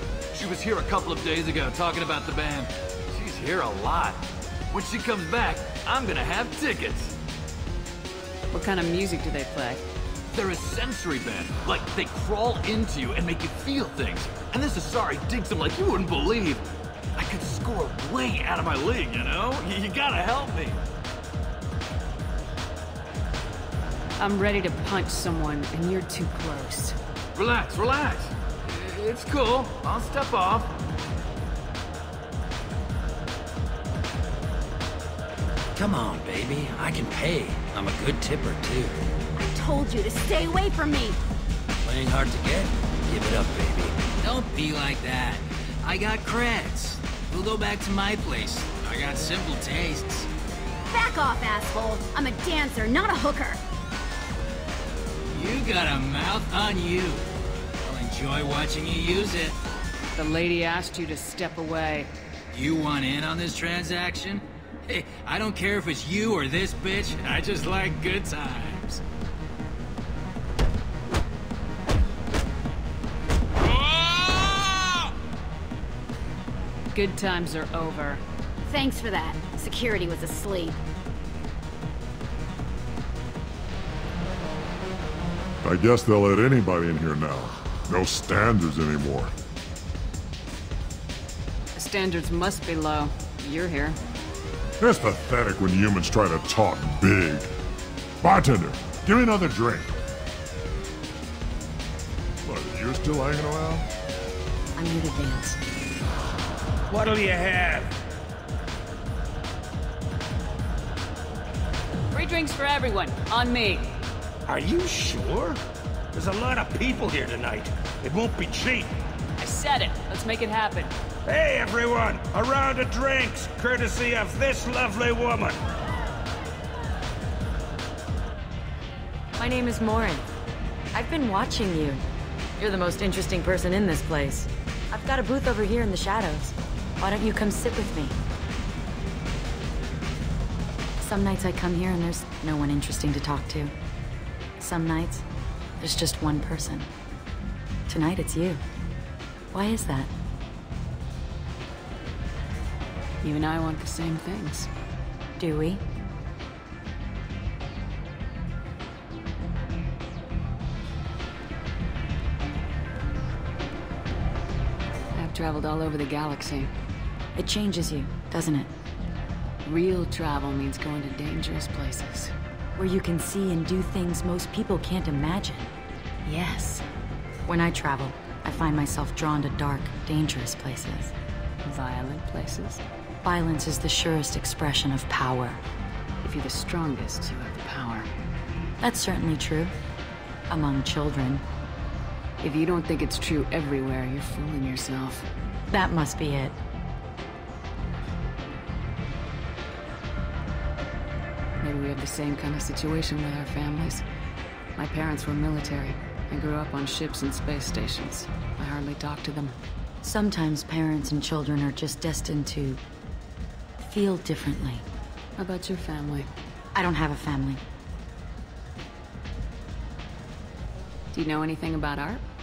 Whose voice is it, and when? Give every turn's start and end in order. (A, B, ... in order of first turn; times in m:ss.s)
0:00.3-0:01.7 A
0:00.4-0:02.6 B
0:02.3-0:03.2 A
0:03.2-0:04.1 B
0:04.8-0:06.9 B
0:04.8-0:06.0 A
0:08.5-0:09.8 C
0:10.4-0:10.7 A
0:10.4-0:16.5 B
0:11.4-0:12.7 A
0:13.4-0:15.2 A
0:17.2-0:20.8 A
0:18.4-0:20.6 B
0:24.2-0:27.0 C
0:27.5-0:28.2 B
0:28.7-0:29.9 A
0:29.2-0:30.5 B
0:35.8-0:38.9 D
0:39.4-0:41.2 E
0:41.8-0:44.1 D
0:44.2-0:50.3 A
0:50.9-0:53.6 E
0:55.3-0:57.2 A
0:57.9-0:59.6 A
1:00.2-1:02.1 C
1:02.5-1:09.0 A
1:16.9-1:18.2 C
1:18.7-1:20.8 E
1:25.6-1:29.4 F
1:31.8-1:34.0 C
1:34.8-1:37.5 F
1:38.2-1:39.9 F
1:42.4-1:43.8 F
1:44.8-1:45.6 G
1:46.9-1:47.9 H
1:52.1-1:54.0 C
1:54.4-1:55.6 H
1:56.1-1:58.9 H
1:59.4-2:00.9 C
2:01.2-2:05.6 H
2:09.4-2:10.2 G
2:10.9-2:12.0 G
2:12.6-2:18.2 G
2:21.0-2:23.7 G
2:24.6-2:25.2 G
2:25.8-2:26.9 G
2:27.9-2:28.6 G
2:29.5-2:30.1 G
2:33.2-2:34.7 C
2:35.4-2:35.8 G
2:45.1-2:46.7 C
2:47.4-2:48.7 G
2:49.6-2:52.3 C
2:52.8-2:55.8 G
2:56.2-2:56.8 C
2:57.5-3:01.1 G
3:01.6-3:02.8 C
3:03.2-3:05.6 G
3:06.2-3:08.1 C
3:08.8-3:09.7 G
3:10.5-3:11.4 G
3:12.4-3:15.3 C
3:15.7-3:16.6 G
3:21.6-3:24.0 C
3:24.8-3:29.6 C
3:30.0-3:32.8 G
3:33.8-3:34.8 G
3:35.4-3:36.3 C
3:36.8-3:37.6 G
3:41.1-3:42.2 C